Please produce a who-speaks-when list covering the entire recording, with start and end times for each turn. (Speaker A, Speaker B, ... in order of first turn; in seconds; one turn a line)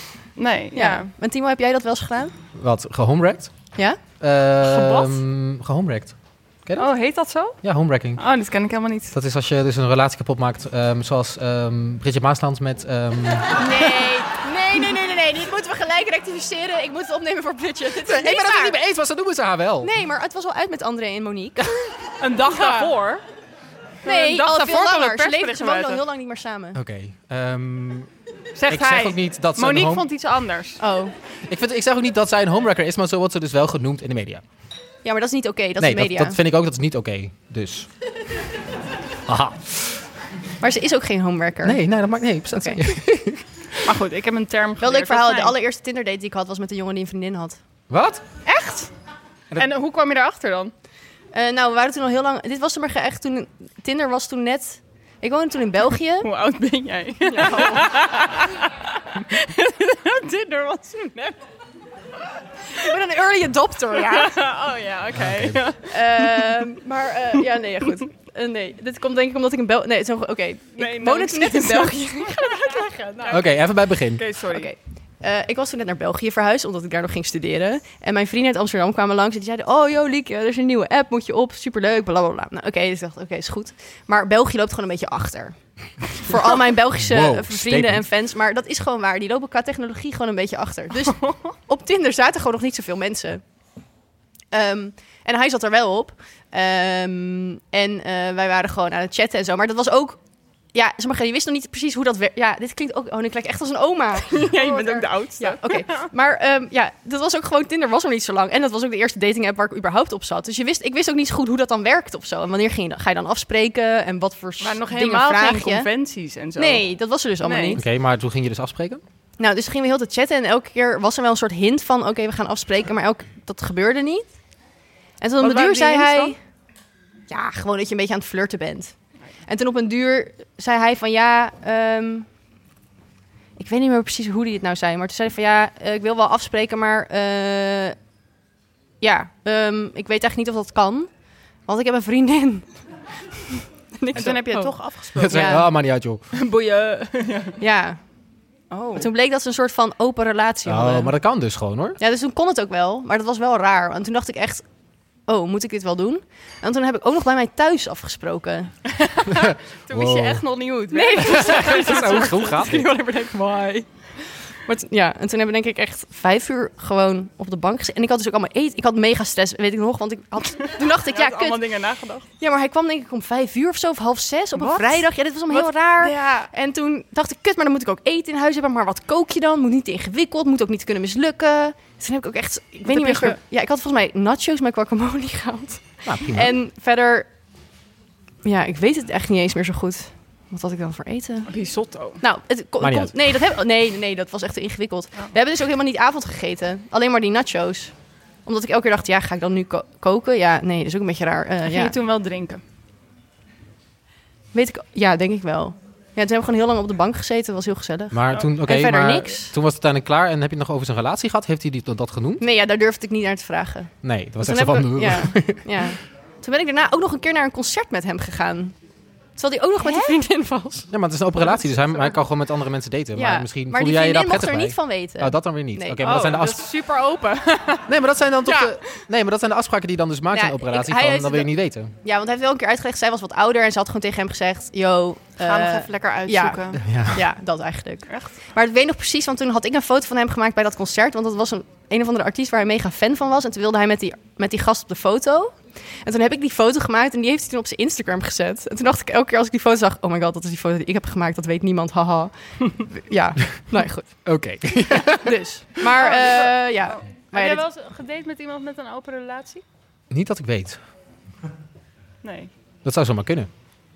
Speaker A: 0.3-1.1
Speaker B: 0.8-2.3
Speaker C: 2.5-3.5
Speaker C: 4.2-6.9
Speaker A: 4.6-5.2
Speaker A: 6.8-7.6
Speaker C: 7.6-8.2
Speaker A: 8.2-9.1
Speaker C: 9.1-13.5
Speaker B: 13.6-18.8
Speaker C: 18.0-19.9
Speaker B: 19.8-21.9
Speaker A: 22.2-23.2
Speaker B: 22.4-22.9
Speaker A: 24.0-26.0
Speaker B: 24.1-26.8
Speaker C: 26.7-28.1
Speaker A: 28.6-30.8
Speaker C: 28.7-30.1
Speaker B: 30.8-31.1
Speaker C: 31.5-34.4
Speaker B: 35.0-36.4
Speaker C: 35.8-37.9
Speaker C: 39.3-40.0
Speaker B: 40.6-41.8
Speaker C: 41.6-43.4
Speaker B: 42.5-42.8
Speaker A: 43.8-45.6
Speaker B: 44.8-47.6
Speaker C: 47.9-48.2
Speaker A: 48.5-48.9
Speaker A: 49.6-50.7
Speaker B: 51.3-56.3
Speaker A: 56.2-61.4
Speaker B: 57.3-57.9
Speaker B: 62.7-64.4
Speaker A: 64.1-66.7
Speaker C: 65.2-65.6
Speaker B: 65.9-73.3
Speaker A: 70.8-73.5
Speaker C: 73.3-74.3
Speaker A: 74.2-74.7
Speaker B: 74.5-85.6
Speaker B: 86.1-93.4
Speaker C: 87.0-88.0
Speaker B: 94.5-100.2
Speaker B: 100.7-115.9
Speaker A: 104.3-106.1
Speaker A: 114.6-116.9
Speaker B: 116.6-117.8
Speaker A: 117.4-117.8
Speaker C: 117.8-119.0
Speaker B: 119.4-124.3
Speaker B: 125.2-126.4
Speaker A: 125.4-126.4
Speaker B: 127.3-128.9
Speaker B: 129.5-132.3
Speaker B: 133.6-138.0
Speaker B: 139.0-141.1
Speaker B: 141.7-142.8
Speaker B: 144.0-145.6
Speaker A: 144.1-145.6
Speaker C: 145.2-146.2
Speaker A: 146.3-147.6
Speaker B: 147.6-148.0
Speaker A: 148.7-149.1
Speaker B: 149.0-151.2
Speaker C: 150.7-152.0
Speaker B: 152.0-154.7
Speaker B: 155.3-158.7
Speaker A: 159.0-162.3
Speaker C: 159.9-160.4
Speaker B: 160.9-171.6
Speaker C: 161.2-162.9
Speaker A: 170.7-172.3
Speaker B: 172.4-187.3
Speaker A: 174.6-176.5
Speaker A: 182.9-183.4
Speaker C: 186.1-186.5
Speaker B: 188.4-191.5
Speaker A: 191.5-192.2
Speaker B: 192.2-197.9
Speaker C: 192.8-193.2
Speaker B: 198.4-201.9
Speaker A: 201.7-202.6
Speaker B: 204.5-209.5
Speaker C: 208.1-212.4
Speaker B: 212.4-218.8
Speaker C: 214.0-215.8
Speaker B: 219.4-220.9
Speaker A: 219.8-220.2
Speaker C: 220.9-226.7
Speaker B: 223.2-226.3
Speaker A: 226.0-227.9
Speaker C: 227.9-231.9
Speaker B: 230.3-231.5
Speaker B: 232.0-254.2
Speaker A: 235.4-236.8
Speaker C: 236.8-237.2
Speaker A: 238.1-238.3
Speaker C: 254.2-255.3
Speaker B: 255.1-257.6
Speaker A: 255.9-259.6
Speaker C: 260.1-260.8
Speaker A: 262.2-262.5
Speaker C: 262.8-263.5